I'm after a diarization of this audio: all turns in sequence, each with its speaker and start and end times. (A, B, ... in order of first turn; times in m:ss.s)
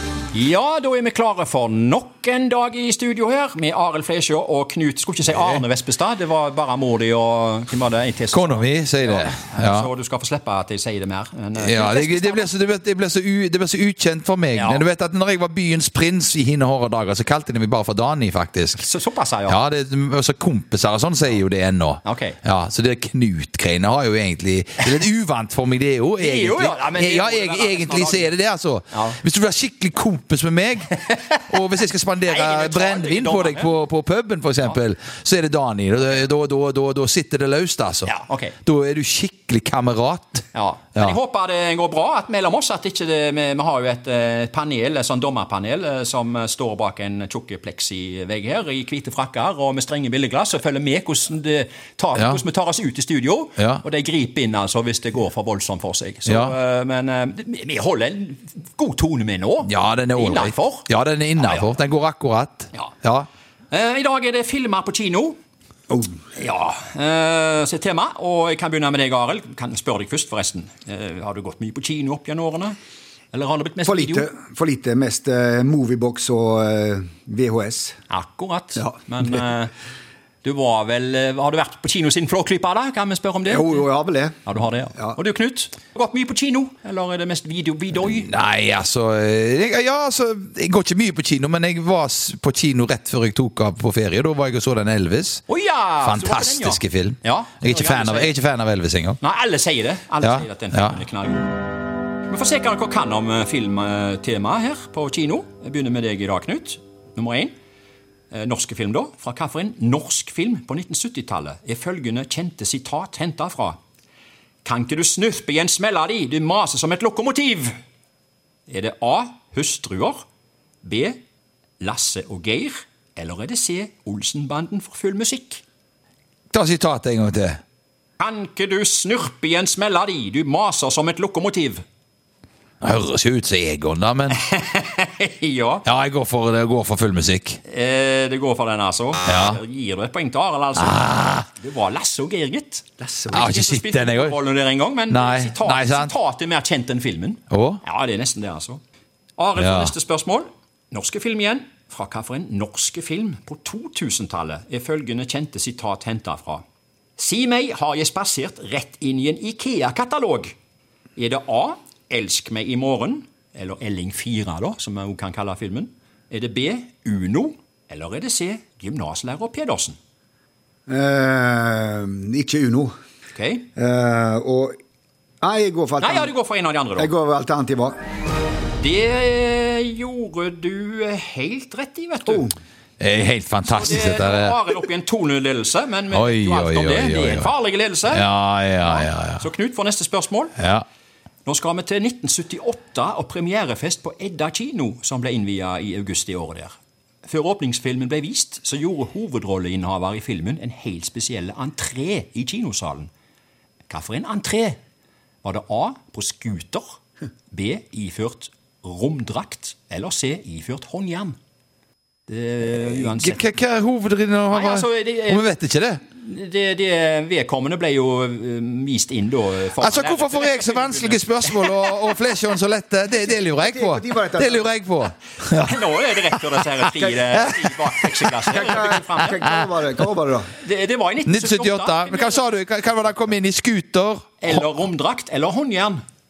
0:00.3-0:12.5 A
0:05.3-0:05.6 B
0:08.3-0:09.9 B
0:11.6-0:18.9 B
0:14.6-0:14.9 A
0:18.8-0:19.6 A
0:19.5-0:38.1 B
0:22.0-0:22.4 A
0:26.2-0:28.3 A
0:28.9-0:29.2 A
0:32.2-0:33.7 A
0:38.0-0:38.6 A
0:38.6-0:41.2 B
0:40.5-1:01.7 A
0:52.2-0:52.4 B
0:53.6-0:53.8 B
0:56.3-0:56.6 B
0:59.6-1:03.3 B
1:03.7-1:05.4 A
1:06.4-1:12.8 A
1:13.3-1:14.3 A
1:13.8-1:18.0 C
1:18.1-1:19.7 A
1:20.4-1:23.8 A
1:23.5-1:24.4 C
1:24.4-1:28.3 A
1:28.0-1:35.4 B
1:35.5-1:38.3 A
1:36.0-1:39.2 B
1:39.2-1:41.7 A
1:40.2-1:41.0 B
1:42.3-1:47.5 A
1:48.3-1:53.8 A
1:54.6-1:57.7 A
1:58.7-2:00.2 A
2:00.8-2:01.2 A
2:01.8-2:05.6 A
2:06.5-2:07.6 B
2:08.2-2:11.8 A
2:12.8-2:14.4 B
2:14.4-2:15.9 A
2:15.9-2:17.6 B
2:17.6-2:28.8 A
2:19.3-2:19.6 B
2:20.8-2:21.5 B
2:23.0-2:23.5 C
2:23.3-2:24.4 B
2:25.1-2:26.1 B
2:27.5-2:27.8 B
2:29.4-2:36.6 A
2:29.6-2:29.9 B
2:37.2-2:40.5 A
2:41.2-2:50.0 A
2:50.9-2:52.9 C
2:53.3-2:53.7 A
2:53.8-2:54.8 C
2:55.4-2:56.3 C
2:56.0-2:57.1 A
2:57.0-2:58.0 C
2:58.8-3:02.5 A
3:03.0-3:04.6 B
3:03.7-3:08.3 A
3:06.1-3:07.5 B
3:08.1-3:09.5 B
3:08.8-3:10.6 A
3:10.6-3:10.8 B
3:11.5-3:23.1 A
3:23.9-3:24.8 A
3:25.4-3:27.0 A
3:27.5-3:31.4 A
3:32.3-3:33.5 A
3:33.0-3:36.0 B
3:34.5-3:35.5 A
3:36.0-3:42.0 A
3:39.8-3:48.4 B
3:43.5-3:44.7 C
3:45.6-3:49.6 A
3:48.5-3:50.5 C
3:49.4-3:49.7 B
3:50.6-3:52.5 A
3:51.3-3:54.6 B
3:54.4-3:56.0 A